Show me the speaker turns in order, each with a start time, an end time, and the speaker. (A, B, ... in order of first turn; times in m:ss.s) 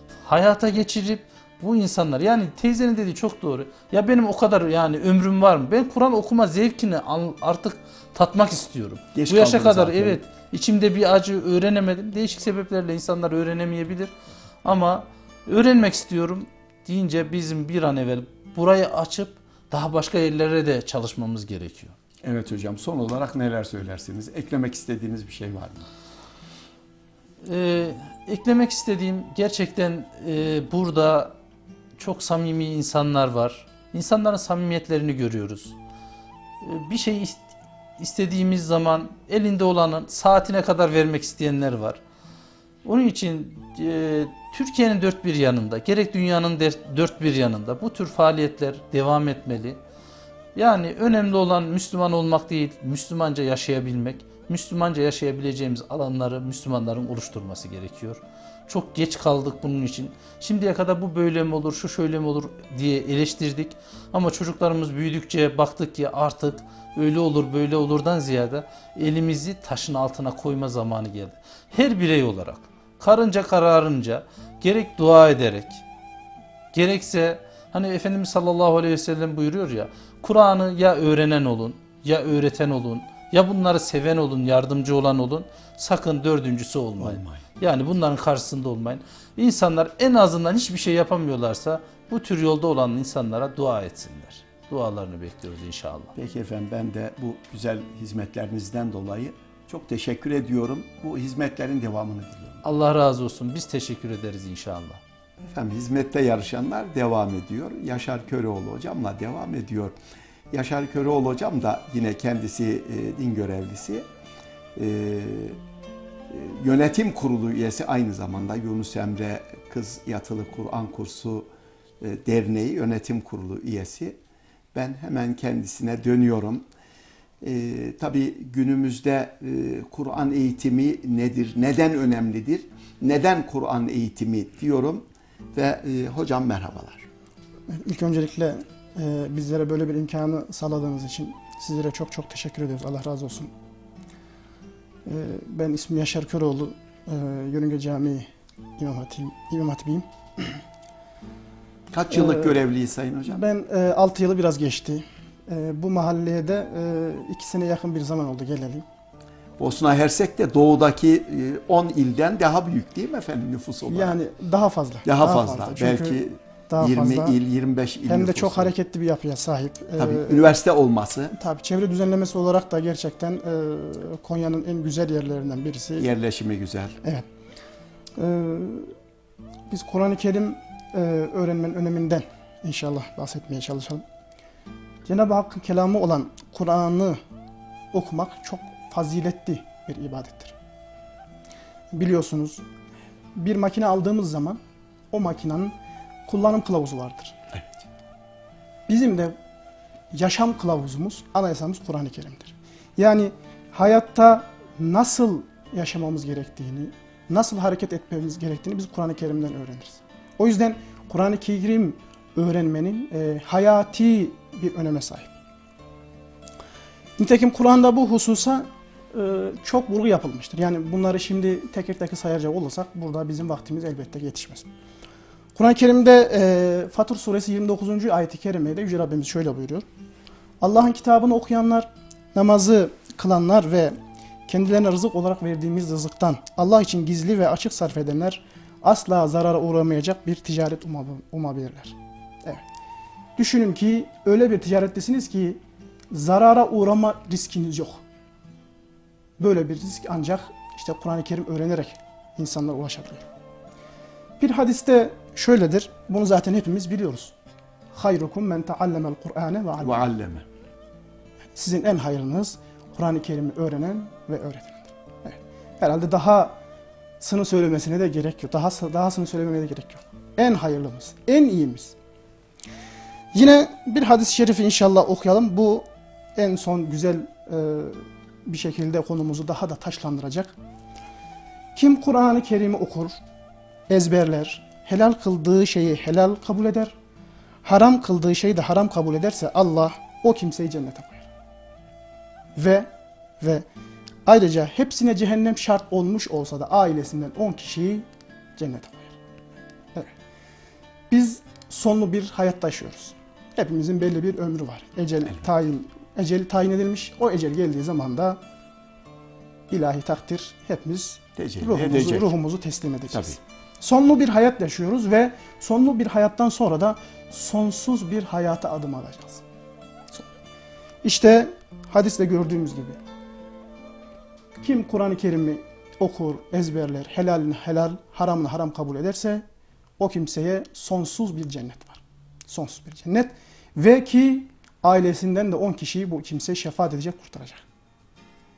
0:00.2-0:14.1 A
0:09.1-0:10.2 B
0:14.6-0:21.9 A
0:22.2-0:25.9 B
0:27.4-0:31.3 A
0:32.0-0:35.8 A
0:36.6-0:37.4 A
0:38.0-0:42.0 A
0:42.8-0:49.8 A
0:50.5-1:15.8 A
1:16.7-1:36.1 A
1:27.0-1:27.4 B
1:36.1-1:42.6 B
1:42.6-1:45.0 A
1:45.4-1:50.0 B
1:50.5-1:54.0 B
1:54.8-1:55.6 B
1:56.3-2:01.5 B
2:02.0-2:04.2 B
2:04.7-2:06.6 B
2:07.4-2:17.0 B
2:17.7-2:23.5 C
2:25.0-2:30.6 C
2:31.9-2:33.4 B
2:32.1-2:32.6 C
2:33.2-2:38.8 C
2:39.6-2:44.2 B
2:43.8-2:46.2 C
2:45.0-2:48.7 B
2:46.7-2:47.4 C
2:48.1-2:50.5 C
2:50.0-2:51.3 B
2:51.3-2:56.1 C
2:56.0-2:57.0 B
2:58.2-2:58.9 C
2:59.7-3:04.0 C
3:05.0-3:07.2 C
3:07.9-3:10.5 C
3:11.9-3:12.6 C
3:13.4-3:14.6 C
3:15.1-3:15.7 C
3:16.2-3:17.4 C
3:18.9-3:19.3 C
3:20.1-3:35.3 C
3:37.2-3:44.7 C
3:45.6-3:49.8 C
3:50.6-3:54.0 C
3:54.5-4:02.6 C
4:03.4-4:08.0 C
4:09.4-4:13.2 C
4:14.4-4:17.3 C
4:17.9-4:20.1 C
4:19.8-4:20.4 B
4:21.6-4:26.6 C
4:27.2-4:31.9 C
4:33.3-4:40.5 C
4:41.7-4:43.2 C
4:43.9-4:46.9 C
4:47.6-4:51.3 C
4:52.6-4:52.9 C
4:53.4-4:53.6 C
4:54.2-4:59.2 C
5:01.1-5:08.4 C
5:09.7-5:19.4 C
5:11.4-5:12.3 B
5:13.1-5:13.4 B
5:21.0-5:23.0 C
5:24.6-5:29.4 C
5:30.0-5:37.6 C